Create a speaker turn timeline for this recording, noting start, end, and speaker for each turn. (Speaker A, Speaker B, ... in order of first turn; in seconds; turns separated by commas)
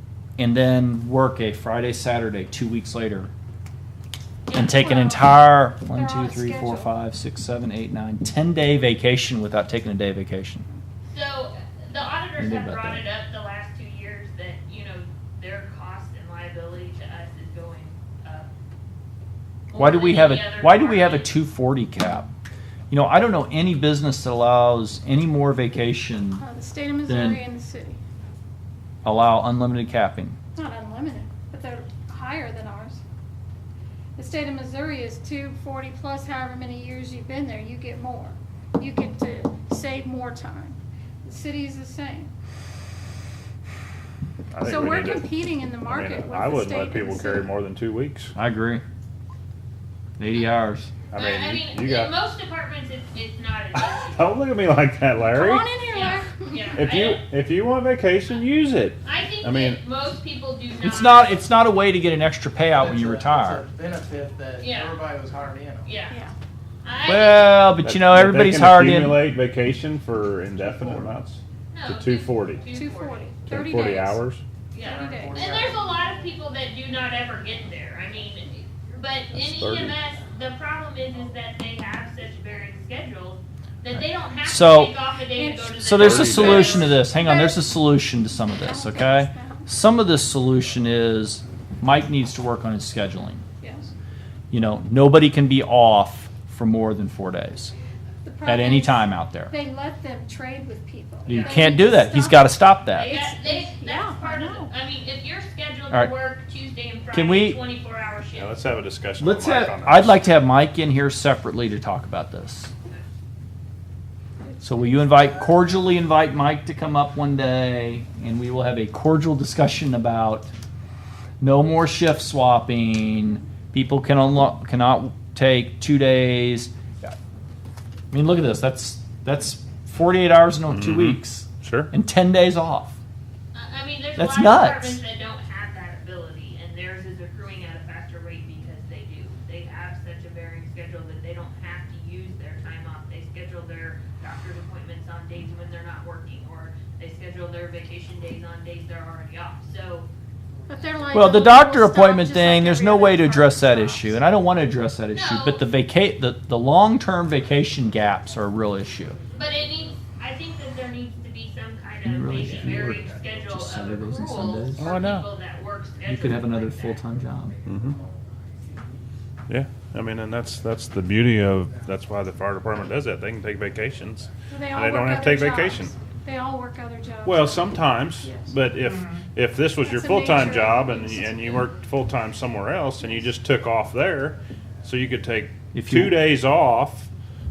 Speaker A: 0.4-3.3, Speaker B: 4.5-5.3, Speaker A: 4.5-10.7, Speaker C: 5.9-6.9, Speaker B: 11.1-18.5, Speaker A: 12.4-13.0, Speaker B: 19.7-21.4, Speaker A: 19.8-22.3, Speaker A: 22.9-26.4, Speaker C: 26.4-28.0, Speaker A: 27.1-27.4, Speaker A: 29.0-30.4, Speaker C: 30.6-33.0, Speaker C: 34.2-42.3, Speaker D: 44.5-48.3, Speaker C: 44.6-47.5, Speaker A: 48.4-48.8, Speaker A: 50.2-50.9, Speaker D: 51.1-52.1, Speaker B: 51.1-54.3, Speaker D: 53.8-55.6, Speaker C: 55.3-56.7, Speaker B: 55.9-57.2, Speaker D: 56.7-59.8, Speaker B: 59.0-61.5, Speaker A: 60.8-63.7, Speaker E: 63.7-65.8, Speaker B: 64.6-65.0, Speaker B: 65.8-66.2, Speaker C: 66.1-66.3, Speaker B: 66.8-67.7, Speaker A: 67.1-69.2, Speaker D: 67.8-72.7, Speaker B: 71.7-73.4, Speaker C: 72.7-74.2, Speaker D: 73.5-74.4, Speaker B: 74.7-87.0, Speaker C: 74.9-75.5, Speaker D: 79.4-80.0, Speaker A: 84.4-85.0, Speaker C: 85.3-85.8, Speaker A: 85.8-93.4, Speaker D: 86.0-86.7, Speaker C: 86.6-87.7, Speaker C: 88.4-89.7, Speaker C: 93.6-93.9, Speaker A: 94.5-97.7, Speaker C: 98.2-104.7, Speaker A: 98.5-99.5, Speaker A: 101.2-103.2, Speaker B: 101.3-101.7, Speaker B: 103.0-108.6, Speaker A: 107.1-107.6, Speaker D: 108.3-110.2, Speaker A: 109.2-112.7, Speaker A: 114.6-120.5, Speaker A: 121.4-127.1, Speaker A: 128.1-133.0, Speaker D: 130.7-131.9, Speaker B: 133.5-150.1, Speaker A: 134.2-135.0, Speaker C: 150.7-154.2, Speaker A: 151.1-159.2, Speaker B: 155.1-155.7, Speaker B: 159.3-167.0, Speaker A: 162.0-165.0, Speaker D: 164.8-165.3, Speaker A: 166.1-167.6, Speaker D: 167.7-168.0, Speaker D: 169.5-175.9, Speaker C: 174.5-178.6, Speaker D: 177.2-187.1, Speaker C: 179.8-181.7, Speaker A: 185.7-186.2